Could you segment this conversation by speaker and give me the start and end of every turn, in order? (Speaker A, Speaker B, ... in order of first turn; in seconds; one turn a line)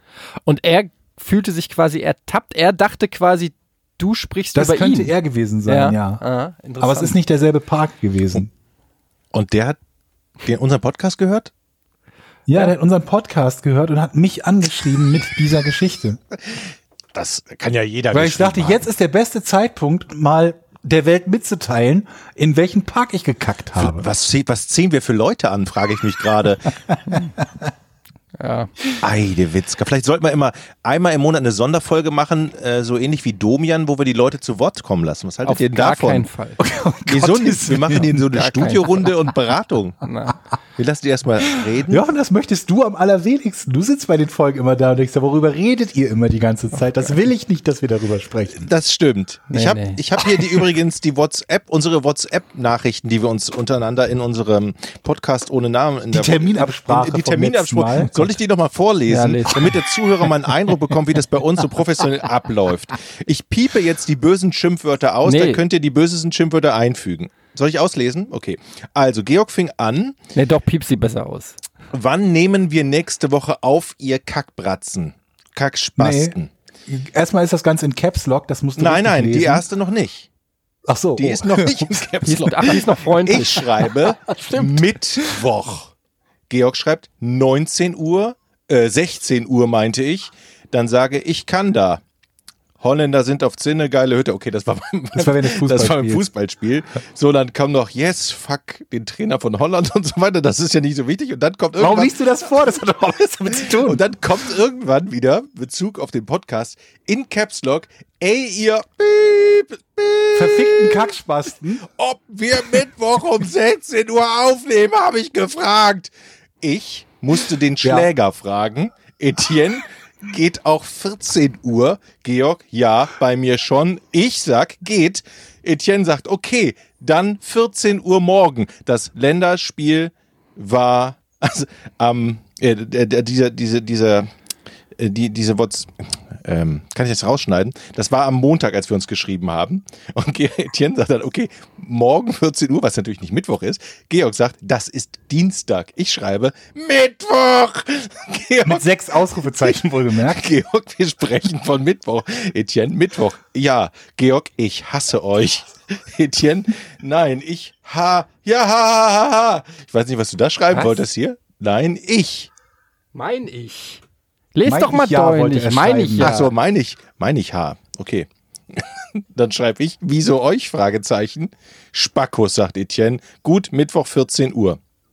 Speaker A: 0.5-5.1
Speaker B: 4.5-6.2
Speaker A: 5.7-7.2
Speaker B: 6.8-8.5
Speaker C: 9.3-9.8
Speaker C: 10.4-11.5
Speaker B: 12.5-16.2
Speaker C: 17.1-18.8
Speaker B: 18.1-24.1
Speaker C: 23.8-26.8
Speaker A: 28.4-28.7
Speaker C: 28.9-36.3
Speaker A: 35.5-36.6
Speaker B: 36.6-38.5
Speaker C: 37.1-40.0
Speaker A: 38.4-39.1
Speaker A: 40.0-40.4
Speaker C: 40.8-42.0
Speaker B: 41.9-48.7
Speaker C: 48.6-70.2
Speaker A: 49.5-50.0
Speaker B: 56.1-58.4
Speaker A: 59.1-59.8
Speaker A: 65.2-65.6
Speaker A: 70.3-71.6
Speaker C: 71.9-76.5
Speaker B: 76.0-76.4
Speaker B: 76.9-79.6
Speaker C: 78.8-80.3
Speaker B: 80.9-82.8
Speaker C: 81.2-85.9
Speaker A: 82.3-83.6
Speaker B: 83.6-85.3
Speaker C: 86.5-92.0
Speaker C: 92.8-102.1
Speaker B: 95.2-96.2
Speaker B: 101.8-104.0
Speaker C: 103.6-111.1
Speaker B: 110.3-111.9
Speaker C: 111.9-116.1
Speaker C: 116.6-134.3
Speaker B: 117.8-118.1
Speaker C: 135.0-148.8
Speaker B: 148.6-150.5
Speaker C: 149.6-162.5
Speaker A: 160.7-161.1
Speaker A: 163.1-164.0
Speaker A: 164.5-166.5
Speaker B: 164.7-166.4
Speaker C: 166.2-174.8